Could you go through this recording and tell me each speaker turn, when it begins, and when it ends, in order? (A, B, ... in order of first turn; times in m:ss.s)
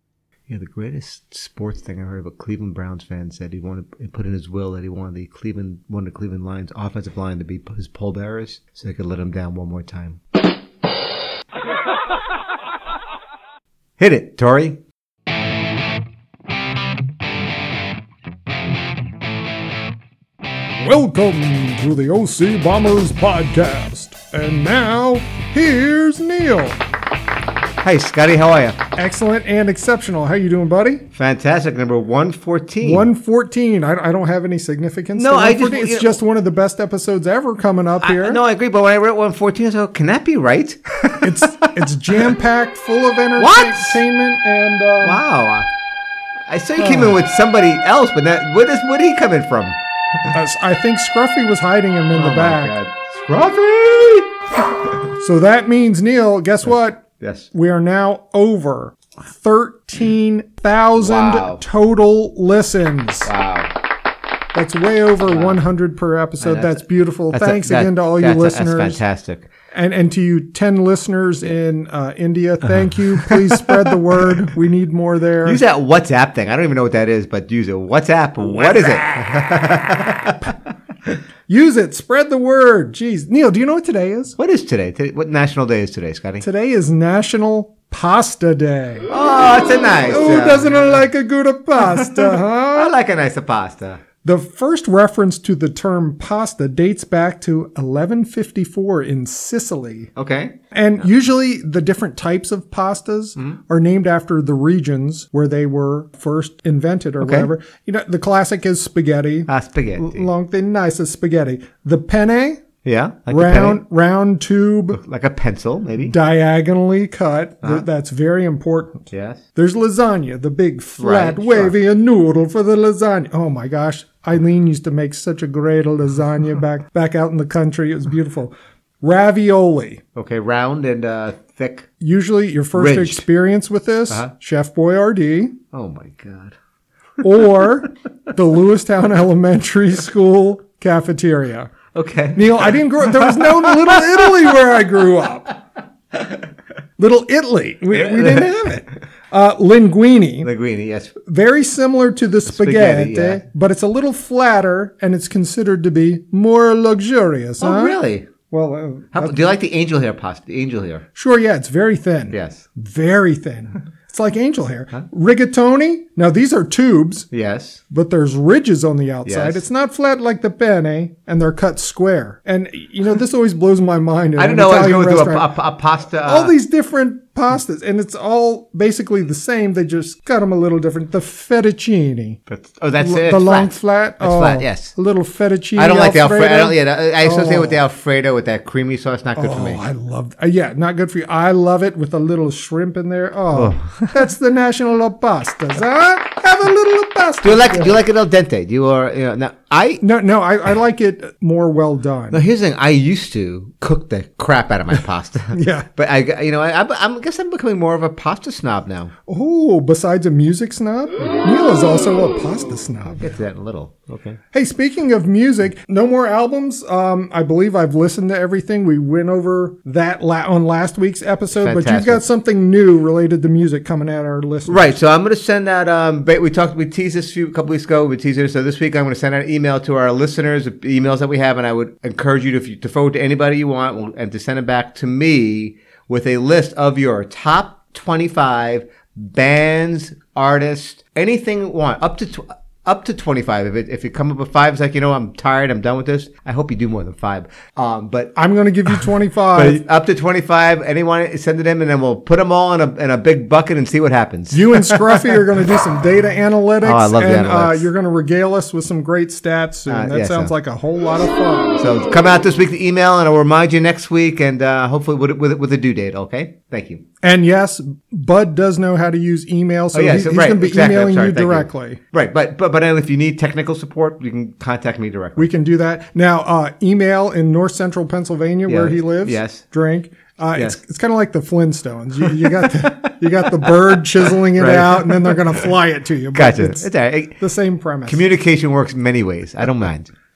0:00.5-0:10.2 A
0:14.0-0:14.8 A
0:20.8-0:26.8 B
0:27.8-0:28.8 A
0:29.0-0:31.0 B
0:31.1-0:33.1 A
0:32.8-0:38.4 B
0:35.2-0:36.2 A
0:38.0-0:41.7 A
0:41.2-0:45.2 B
0:43.4-0:44.0 A
0:45.0-0:45.7 A
0:46.5-0:49.8 A
0:46.8-0:47.2 B
0:50.3-0:52.7 B
0:52.2-0:55.0 A
0:55.2-1:03.3 B
0:57.2-0:57.5 A
1:01.0-1:01.6 A
1:03.2-1:03.7 A
1:04.5-1:09.0 B
1:05.2-1:05.6 A
1:06.4-1:09.5 A
1:09.7-1:15.6 B
1:12.7-1:14.0 A
1:15.4-1:20.6 A
1:18.5-1:19.4 B
1:21.5-1:24.4 B
1:24.4-1:26.4 A
1:26.4-1:29.1 B
1:29.1-1:30.9 A
1:30.1-1:32.9 B
1:31.8-1:34.0 A
1:34.2-1:40.1 B
1:40.2-1:41.0 A
1:40.7-1:52.6 B
1:47.2-1:47.5 A
1:49.5-1:50.3 A
1:52.8-1:53.8 A
1:53.3-1:55.0 B
1:54.9-1:56.2 A
1:56.0-2:10.0 B
1:59.1-1:59.4 A
2:01.0-2:01.8 A
2:10.2-2:11.9 A
2:12.0-2:15.6 B
2:12.7-2:13.2 A
2:15.7-2:16.6 A
2:17.2-2:21.7 B
2:21.9-2:24.3 A
2:22.3-2:25.6 B
2:27.0-2:30.5 B
2:28.0-2:28.5 A
2:30.4-2:31.1 A
2:31.2-2:39.4 B
2:32.5-2:33.4 A
2:37.6-2:38.3 A
2:39.1-2:41.0 A
2:41.2-2:47.3 B
2:42.3-2:42.6 A
2:47.3-2:47.8 A
2:47.9-2:55.5 B
2:49.2-2:49.6 A
2:54.4-2:56.5 A
2:56.2-3:02.4 B
3:02.5-3:04.9 A
3:03.0-3:07.8 B
3:05.8-3:09.8 A
3:09.4-3:18.0 B
3:13.5-3:14.1 A
3:17.4-3:20.0 A
3:20.0-3:22.4 B
3:22.3-3:29.1 A
3:25.5-3:25.9 B
3:29.3-3:33.3 B
3:33.1-3:34.4 A
3:34.5-3:45.0 B
3:41.5-3:42.2 A
3:44.7-4:08.4 A
4:08.4-4:09.8 B
4:09.5-4:15.3 A
4:14.5-4:21.8 B
4:16.8-4:17.9 A
4:19.9-4:20.5 A
4:21.8-4:27.0 A
4:27.2-4:32.0 B
4:29.9-4:35.5 A
4:35.4-4:48.2 B
4:38.7-4:39.6 A
4:42.2-4:43.1 A
4:43.6-4:44.0 A
4:44.6-4:45.6 A
4:46.3-4:47.4 A
4:48.1-4:50.1 A